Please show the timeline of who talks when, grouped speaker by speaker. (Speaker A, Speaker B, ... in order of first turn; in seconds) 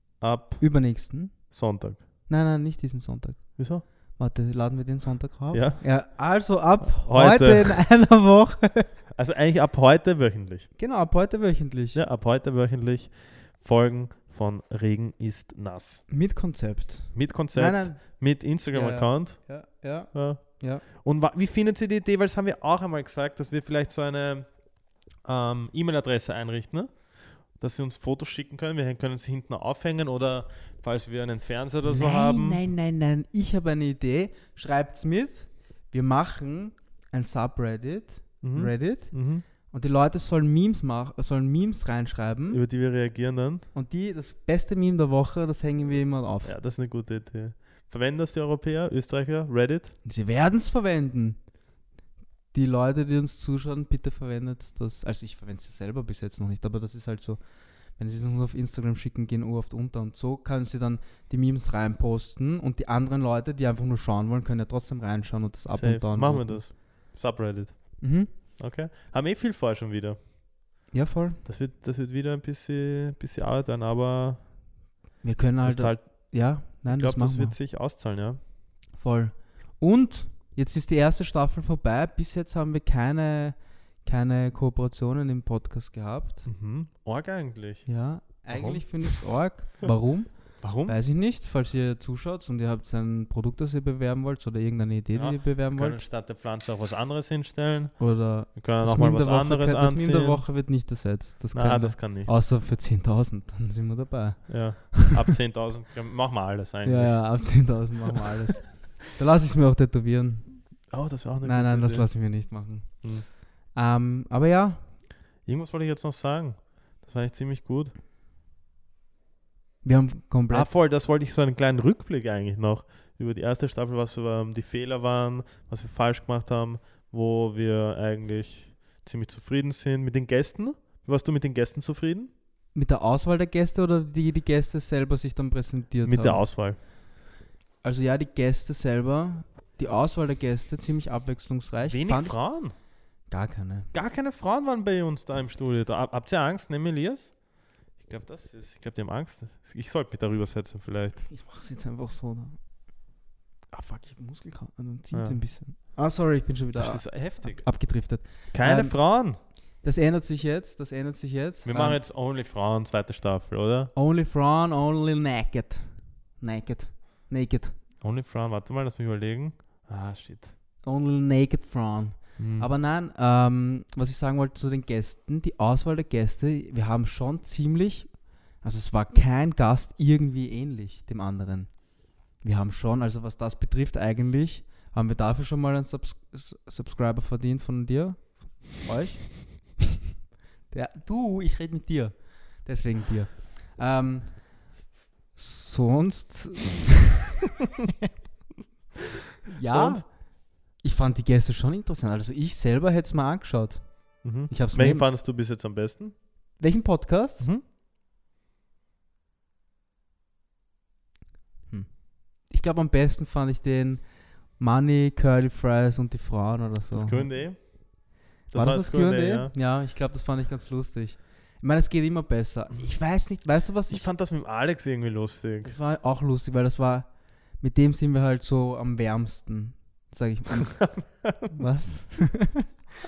Speaker A: 0.2-2.0, 3.6-3.9, 5.5-7.8, 9.1-10.7, 11.9-16.1, 17.1-32.6, 38.4-39.4, 42.5-43.7, 46.4-50.0, 65.7-70.3, 71.4-74.5, 75.6-78.4, 86.4-89.6, 90.6-91.0, 95.1-100.5, 101.5-102.3, 104.5-107.8, 110.9-112.4, 115.4-117.9, 120.5-132.3, 136.0-136.8, 141.8-142.7, 143.9-151.2, 155.1-155.4, 156.7-159.4, 161.6-163.9, 168.0-170.5, 172.4-172.7, 199.6-200.1, 204.2-206.2, 207.4-207.6, 216.9-219.5, 223.9-225.8, 230.8-231.6
Speaker B: 0.6-1.5, 2.3-8.9, 10.8-12.0, 16.1-20.8, 31.8-42.6, 43.7-46.6, 50.0-51.4, 52.5-66.7, 68.0-68.3, 70.9-71.4, 75.2-77.6, 78.9-86.5, 87.8-96.0, 98.0-105.2, 106.8-110.9, 111.4-114.9, 119.8-120.7, 132.7-136.8, 137.8-143.9, 151.3-152.6, 153.7-162.0, 163.9-167.7, 170.8-189.8, 190.7-194.7, 195.3-197.0, 199.5-205.1, 206.6-207.5, 211.7-217.7, 218.5-224.1, 225.6-232.7